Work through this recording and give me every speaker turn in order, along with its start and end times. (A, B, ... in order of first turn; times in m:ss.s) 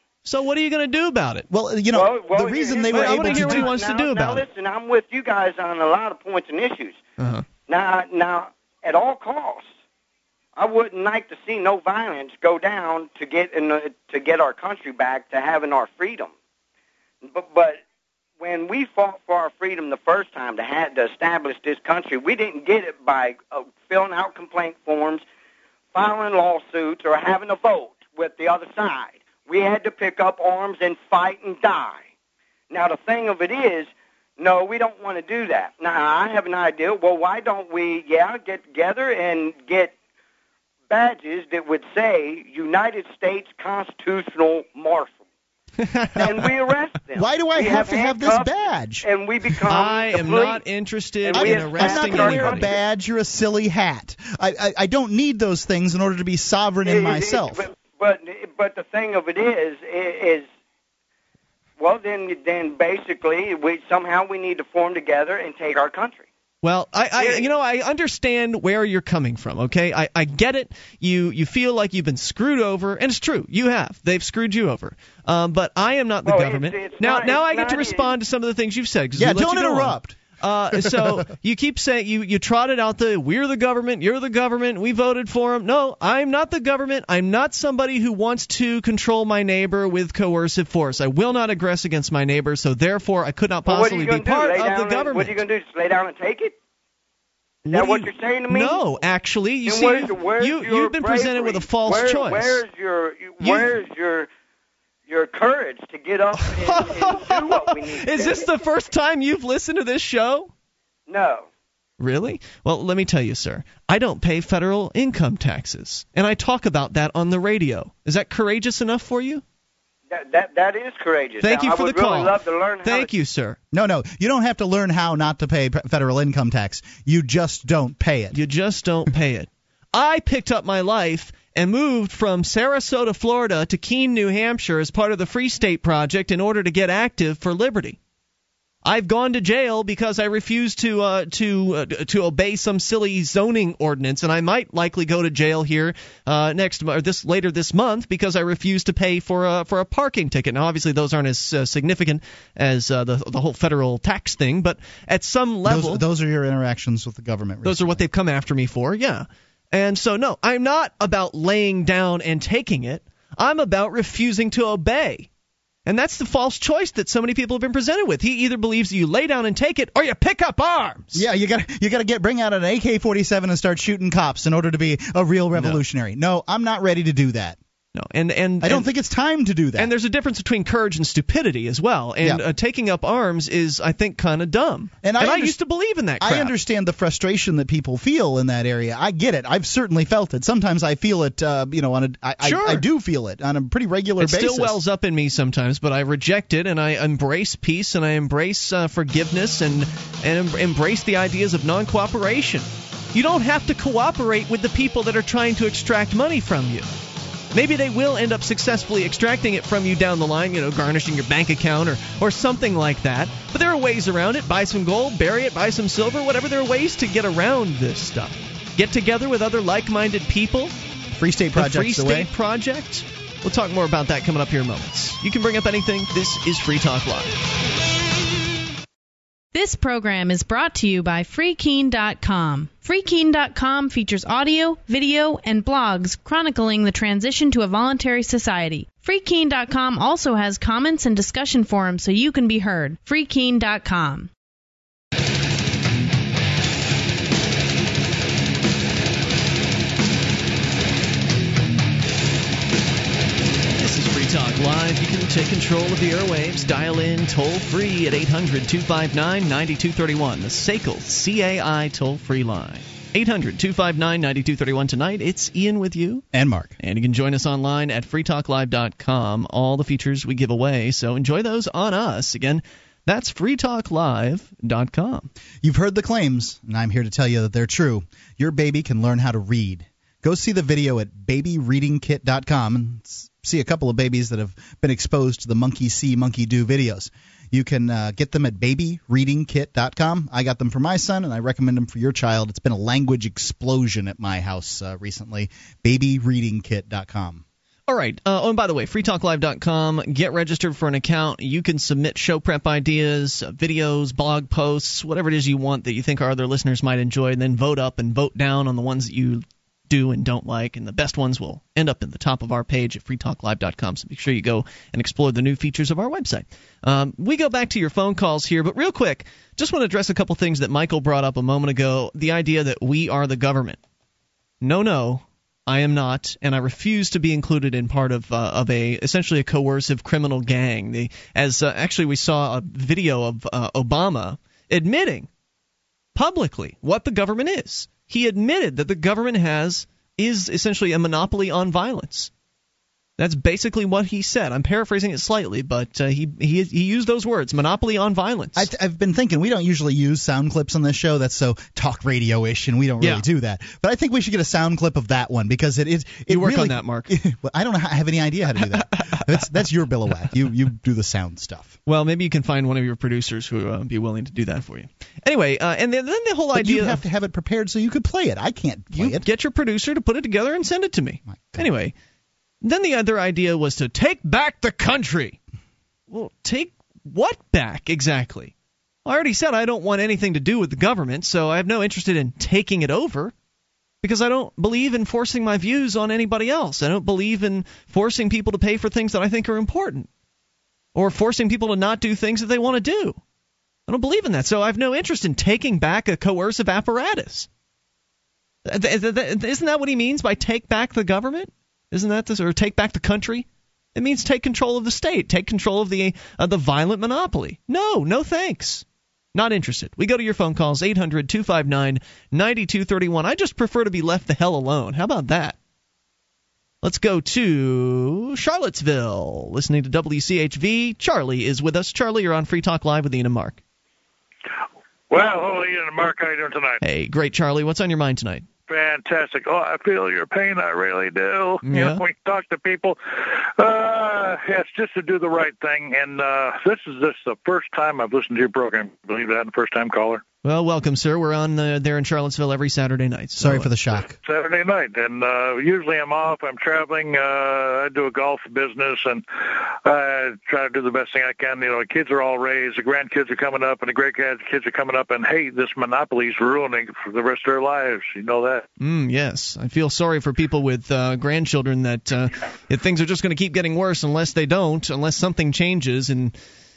0:00.2-0:01.5 A
0:01.5-0:03.7 B
0:01.9-0:07.0 C
0:02.9-0:04.4 A
0:07.2-0:07.4 A
0:07.7-0:09.7 C
0:10.6-0:16.3 C
0:17.2-0:17.8 C
0:18.4-0:25.2 C
0:25.9-0:32.0 C
0:32.7-0:40.0 C
0:40.9-0:45.2 C
0:45.8-0:46.5 A
0:46.2-0:50.6 C
0:47.2-0:49.1 B
0:49.7-0:52.7 A
0:51.3-0:52.6 C
0:51.3-0:57.7 B
0:56.8-1:00.5 C
1:01.8-1:06.3 C
1:06.6-1:35.4 A
1:07.2-1:07.5 C
1:16.2-1:18.1 C
1:19.2-1:20.2 B
1:20.8-1:21.2 B
1:33.7-1:36.6 C
1:37.7-1:42.7 A
1:37.7-1:38.8 C
1:39.6-1:44.3 C
1:43.4-1:43.7 A
1:45.1-1:48.5 C
1:46.4-1:50.5 A
1:51.1-1:51.5 C
1:52.0-1:59.4 A
2:00.1-2:03.1 C
2:01.4-2:03.6 A
2:03.7-2:08.4 B
2:08.3-2:18.0 A
2:18.8-2:36.0 A
2:35.6-2:38.0 B
2:37.6-2:45.3 A
2:45.9-2:51.2 A
2:51.1-2:57.6 B
2:55.6-2:55.8 A
2:58.0-2:58.9 A
2:58.6-2:59.9 B
2:59.8-3:06.5 A
3:05.0-3:05.6 B
3:06.2-3:14.8 B
3:12.4-3:12.8 A
3:14.2-3:26.9 A
3:27.5-3:40.7 A
3:41.2-3:42.3 B
3:41.6-3:47.3 A
3:49.5-4:04.3 D
4:13.8-4:26.2 A
4:26.3-4:26.7 B
4:26.8-4:35.3 A
4:35.6-4:57.4 B
4:57.9-5:23.8 A
5:24.6-5:35.3 A
5:36.2-5:42.3 A
5:43.2-5:48.7 A
5:48.6-6:01.8 B
5:56.3-5:57.1 A
6:01.9-6:07.0 A
6:06.6-6:09.2 B
6:08.9-6:11.9 A
6:11.3-6:11.6 B
6:12.6-6:15.4 A
6:16.1-6:18.5 A
6:19.0-6:23.3 A
6:24.0-6:30.1 A
6:31.0-6:33.2 A
6:33.9-6:37.5 A
6:38.6-6:48.8 A
6:49.4-6:55.6 A
6:56.8-7:03.6 A
7:05.1-7:06.8 E
7:06.8-7:08.5 A
7:08.7-7:20.2 E
7:11.6-7:12.0 A
7:20.4-7:23.7 A
7:23.4-7:24.2 B
7:24.2-7:38.6 E
7:38.8-7:46.4 A